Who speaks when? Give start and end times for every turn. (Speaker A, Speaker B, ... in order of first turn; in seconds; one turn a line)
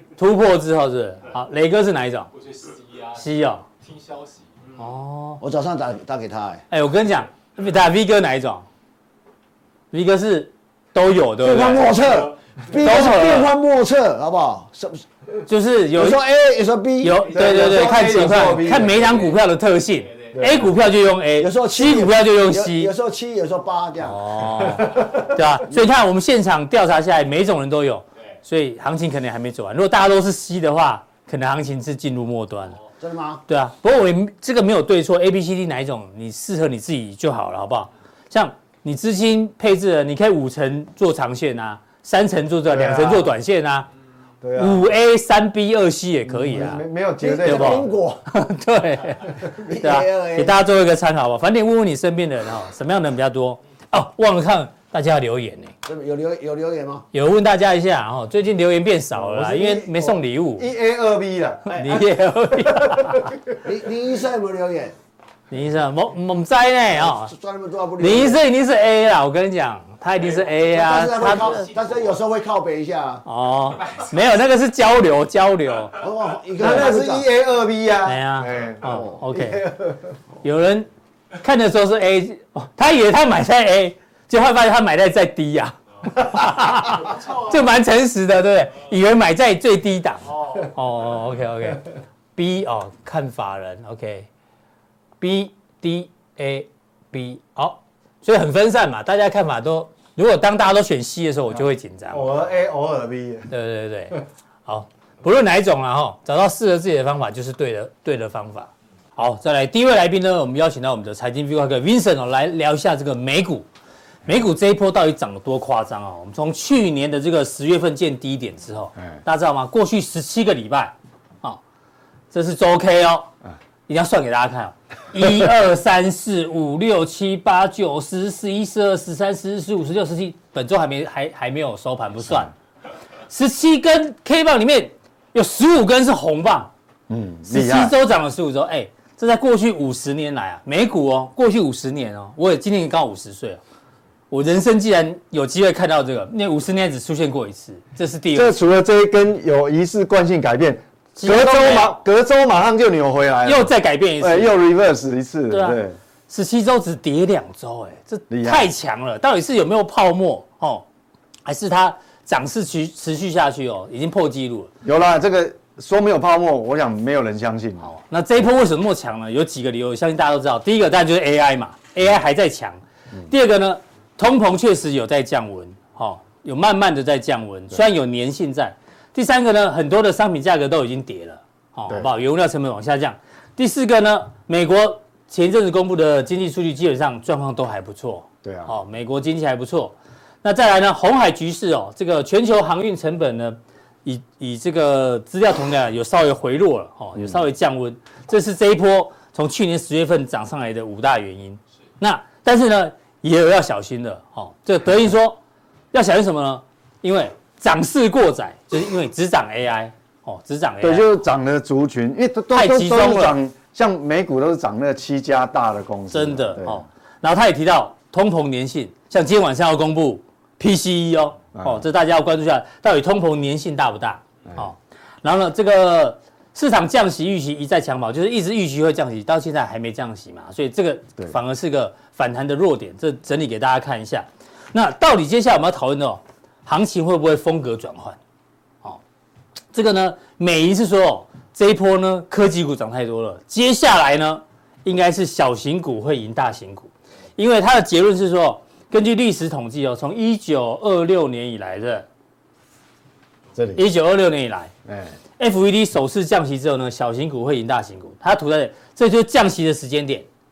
Speaker A: 0.1-2.3
Speaker B: 2.3-3.2
Speaker A: 3.1-3.6
Speaker B: 3.8-4.7
Speaker A: 4.8-5.4
Speaker C: 5.4-6.6
Speaker A: 6.7-8.7
Speaker A: 9.9-12.0
Speaker C: 11.4-15.0
Speaker A: 12.8-13.5
Speaker A: 15.5-16.2
Speaker C: 15.9-17.3
Speaker A: 17.0-22.9
Speaker D: 17.3-19.1
Speaker B: 18.8-19.4
Speaker D: 20.3-20.7
Speaker C: 21.4-24.5
Speaker A: 24.0-32.8
Speaker D: 24.7-25.2
Speaker C: 33.0-33.4
Speaker A: 33.5-43.9
Speaker D: 42.7-43.3
Speaker D: 44.4-44.9
Speaker A: 44.5-46.8
Speaker D: 46.2-47.9
Speaker C: 47.2-48.2
Speaker A: 47.4-55.7
Speaker C: 49.4-50.5
Speaker C: 55.8-57.1
Speaker A: 57.1-60.7
Speaker D: 59.1-62.0
Speaker A: 61.7-63.4
Speaker D: 62.6-63.5
Speaker C: 63.6-65.0
Speaker A: 65.5-67.3
Speaker C: 66.9-68.4
Speaker A: 68.0-71.7
Speaker C: 70.7-73.2
Speaker A: 73.2-76.0
Speaker C: 76.0-77.3
Speaker D: 76.6-80.1
Speaker A: 78.0-79.6
Speaker C: 78.8-79.2
Speaker A: 80.4-94.3
Speaker A: 95.2-102.3
Speaker D: 102.1-103.5
Speaker A: 103.5-113.7
Speaker A: 114.2-121.6
Speaker A: 122.3-123.3
Speaker A: 123.9-132.5
Speaker A: 133.3-136.7
Speaker D: 137.1-137.9
Speaker A: 137.4-143.6
Speaker A: 144.3-148.6
Speaker D: 148.3-156.0
Speaker A: 151.2-151.9
Speaker A: 153.4-154.5
Speaker A: 155.5-160.8
Speaker D: 158.3-158.7
Speaker A: 161.4-164.7
Speaker D: 164.8-167.9
Speaker A: 167.8-205.4
Speaker D: 188.4-188.7
Speaker A: 205.9-211.1
Speaker D: 210.8-216.8
Speaker A: 212.5-213.4
Speaker A: 216.1-238.2
Speaker D: 221.5-221.8
Speaker A: 239.7-252.1
Speaker D: 253.5-253.8
Speaker A: 253.7-254.7
Speaker D: 254.8-255.1
Speaker A: 255.4-260.3